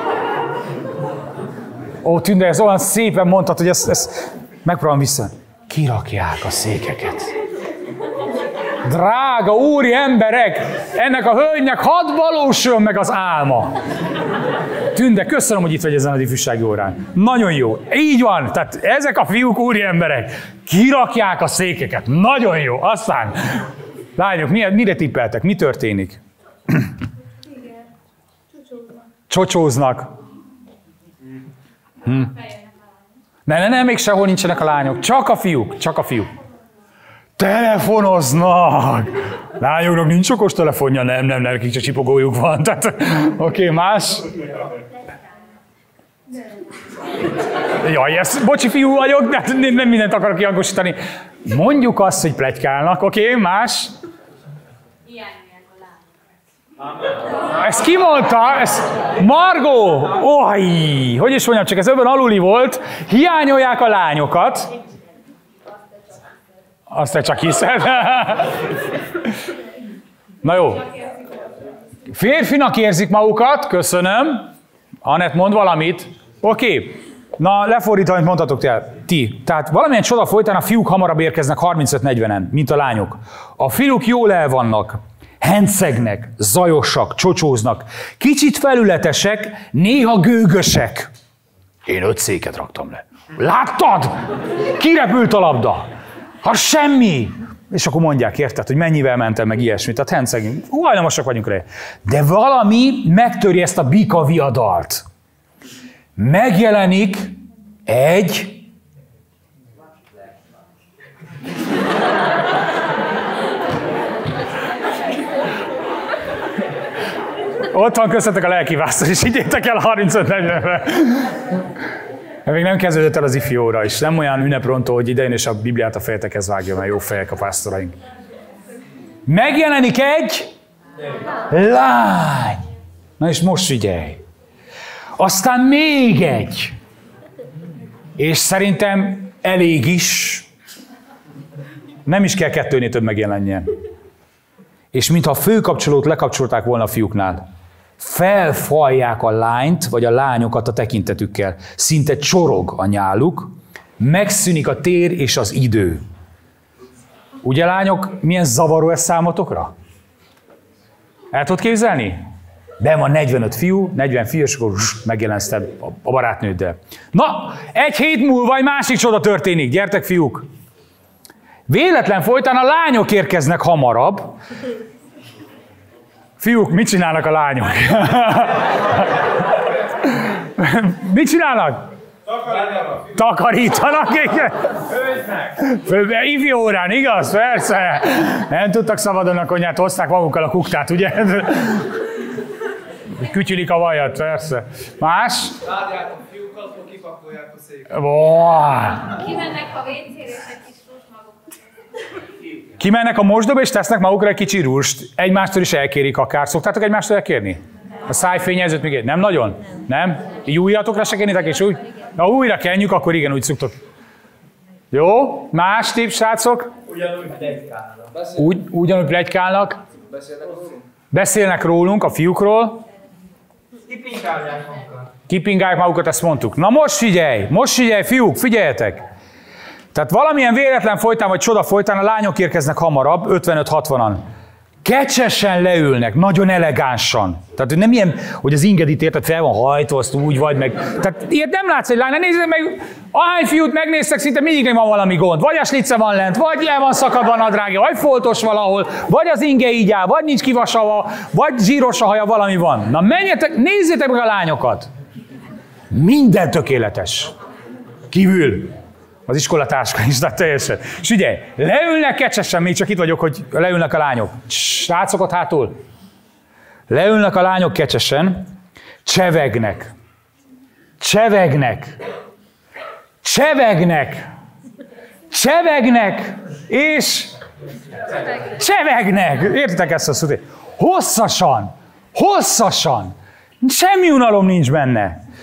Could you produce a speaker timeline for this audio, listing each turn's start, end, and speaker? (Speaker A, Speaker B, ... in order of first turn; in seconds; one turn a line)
Speaker A: 2.0-7.3
Speaker A: 8.8-13.8
Speaker A: 14.9-23.7
Speaker A: 24.2-26.9
Speaker A: 29.3-30.1
Speaker A: 32.0-32.5
Speaker A: 33.5-36.3
Speaker A: 37.4-44.4
Speaker A: 47.6-53.9
Speaker B: 55.1-55.7
Speaker A: 57.4-64.7
Speaker A: 66.9-68.7
Speaker A: 70.4-71.0
Speaker A: 72.1-74.5
Speaker A: 75.0-91.1
Speaker A: 91.9-95.9
Speaker A: 96.4-105.0
Speaker A: 106.2-108.7
Speaker A: 117.7-121.6
Speaker A: 122.5-128.0
Speaker A: 129.3-130.5
Speaker A: 131.5-132.7
Speaker A: 133.2-134.2
Speaker A: 135.2-136.8
Speaker A: 138.2-140.5
Speaker A: 142.1-143.7
Speaker A: 144.9-147.4
Speaker A: 148.0-156.0
Speaker A: 157.4-159.7
Speaker A: 161.3-162.2
Speaker A: 162.8-170.5
Speaker A: 171.7-174.4
Speaker A: 176.4-179.2
Speaker A: 180.0-181.9
Speaker A: 182.8-184.8
Speaker A: 185.4-192.0
Speaker A: 193.1-195.7
Speaker C: 195.7-197.9
Speaker A: 197.9-199.3
Speaker B: 199.4-201.2
Speaker A: 202.8-213.8
Speaker A: 214.9-216.7
Speaker C: 217.1-217.8
Speaker A: 218.2-219.8
Speaker C: 220.2-220.8
Speaker A: 221.1-222.8
Speaker C: 223.9-224.9
Speaker A: 225.3-229.0
Speaker A: 229.9-234.2
Speaker A: 234.8-254.9
Speaker A: 255.9-257.3
Speaker A: 258.1-258.7
Speaker A: 259.3-265.7
Speaker A: 266.9-268.5
Speaker A: 269.1-269.9
Speaker A: 271.0-272.0
Speaker A: 273.2-274.2
Speaker A: 275.3-277.3
Speaker A: 278.5-285.2